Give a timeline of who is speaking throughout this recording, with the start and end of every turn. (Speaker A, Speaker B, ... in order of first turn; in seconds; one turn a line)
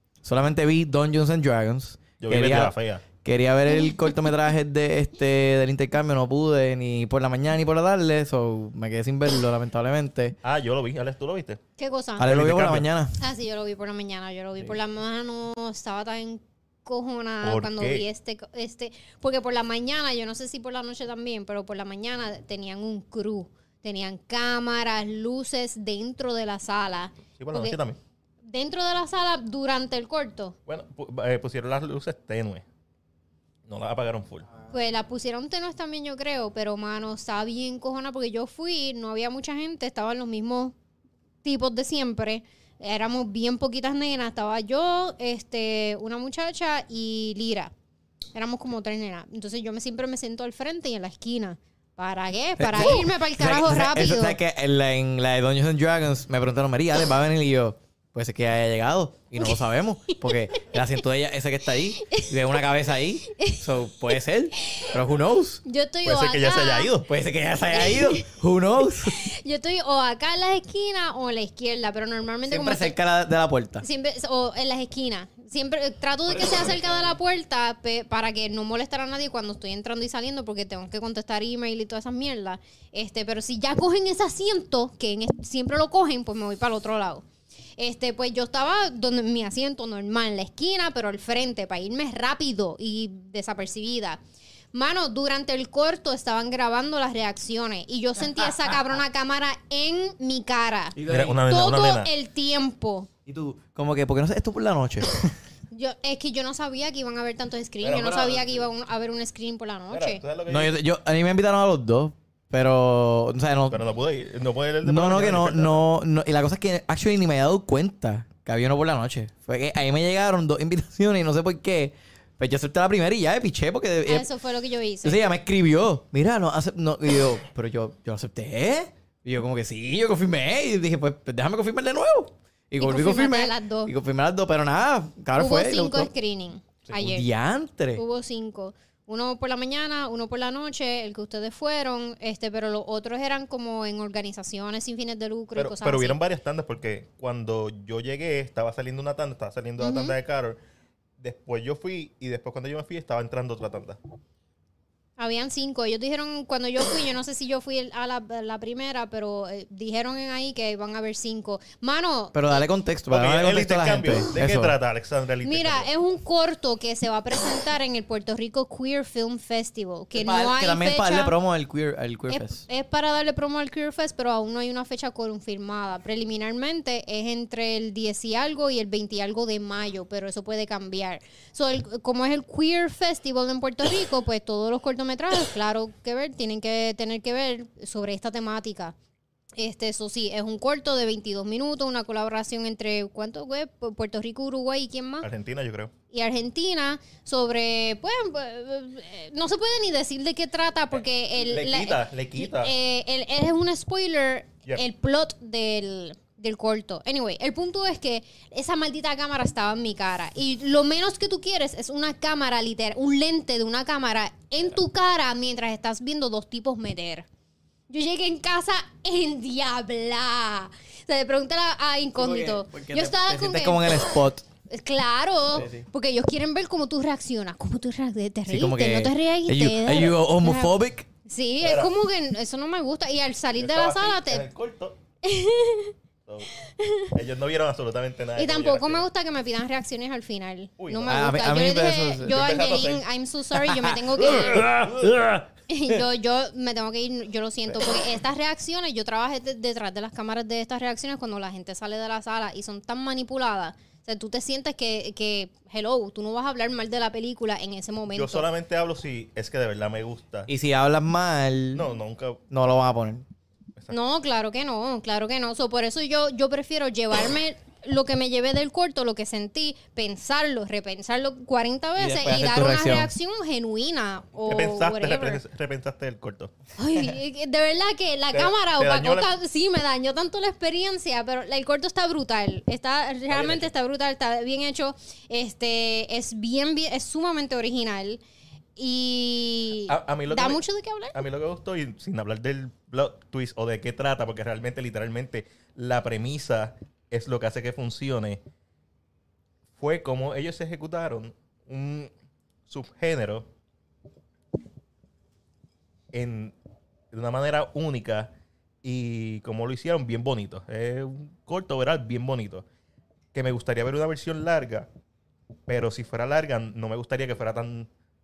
Speaker A: 0.2-10.4
Speaker B: 2.2-3.0
Speaker B: 10.4-11.6
Speaker C: 11.8-12.3
Speaker A: 12.2-13.1
Speaker B: 12.2-12.9
Speaker C: 13.2-27.8
Speaker B: 17.4-18.1
Speaker B: 27.4-28.0
Speaker C: 28.4-30.6
Speaker B: 30.7-32.6
Speaker B: 33.7-34.5
Speaker C: 34.7-40.7
Speaker C: 41.4-47.7
Speaker C: 48.4-54.4
Speaker A: 52.6-65.6
Speaker C: 63.3-63.6
Speaker C: 65.6-66.9
Speaker B: 66.0-67.1
Speaker A: 67.1-69.2
Speaker C: 67.7-68.3
Speaker C: 69.0-73.0
Speaker A: 72.5-73.8
Speaker C: 73.8-87.2
Speaker A: 76.3-77.2
Speaker C: 87.8-94.2
Speaker C: 94.7-103.1
Speaker A: 101.0-101.4
Speaker B: 101.1-102.1
Speaker A: 103.3-105.3
Speaker C: 105.7-110.2
Speaker B: 107.8-108.7
Speaker B: 109.9-110.8
Speaker A: 110.5-113.8
Speaker B: 113.7-115.8
Speaker A: 114.8-124.3
Speaker C: 124.0-125.2
Speaker A: 125.0-136.1
Speaker C: 132.8-133.9
Speaker C: 135.4-137.3
Speaker A: 136.9-138.0
Speaker C: 138.0-146.2
Speaker B: 145.6-150.6
Speaker C: 149.8-150.2
Speaker B: 151.2-154.0
Speaker C: 155.2-162.4
Speaker A: 162.3-164.8
Speaker B: 163.1-165.9
Speaker C: 165.4-171.3
Speaker A: 170.1-172.6
Speaker C: 172.3-189.0
Speaker C: 189.6-195.3
Speaker B: 195.2-195.9
Speaker C: 196.1-217.3
Speaker B: 201.4-202.7
Speaker C: 217.9-224.0
Speaker A: 222.2-224.5
Speaker C: 224.7-230.8
Speaker A: 225.5-225.8
Speaker A: 228.5-231.1
Speaker C: 231.3-234.5
Speaker B: 231.6-231.9
Speaker B: 233.6-235.0
Speaker C: 235.2-235.9
Speaker C: 236.6-237.1
Speaker B: 237.1-239.1
Speaker C: 238.4-244.7
Speaker B: 240.8-241.4
Speaker A: 241.1-242.4
Speaker B: 242.2-243.1
Speaker A: 243.6-245.9
Speaker B: 244.2-244.9
Speaker C: 245.7-258.5
Speaker B: 258.1-260.5
Speaker A: 260.5-261.9
Speaker B: 261.8-262.4
Speaker A: 262.5-263.2
Speaker C: 263.9-275.4
Speaker A: 272.0-273.1
Speaker B: 274.4-276.5
Speaker C: 276.8-288.2
Speaker B: 278.3-279.3
Speaker B: 283.3-283.7
Speaker C: 288.8-291.2
Speaker B: 289.9-290.6
Speaker B: 291.1-298.4
Speaker B: 299.8-302.1
Speaker B: 302.7-303.5
Speaker B: 306.1-306.6
Speaker B: 307.1-308.3
Speaker B: 308.8-312.6
Speaker B: 313.3-314.9
Speaker B: 315.7-317.9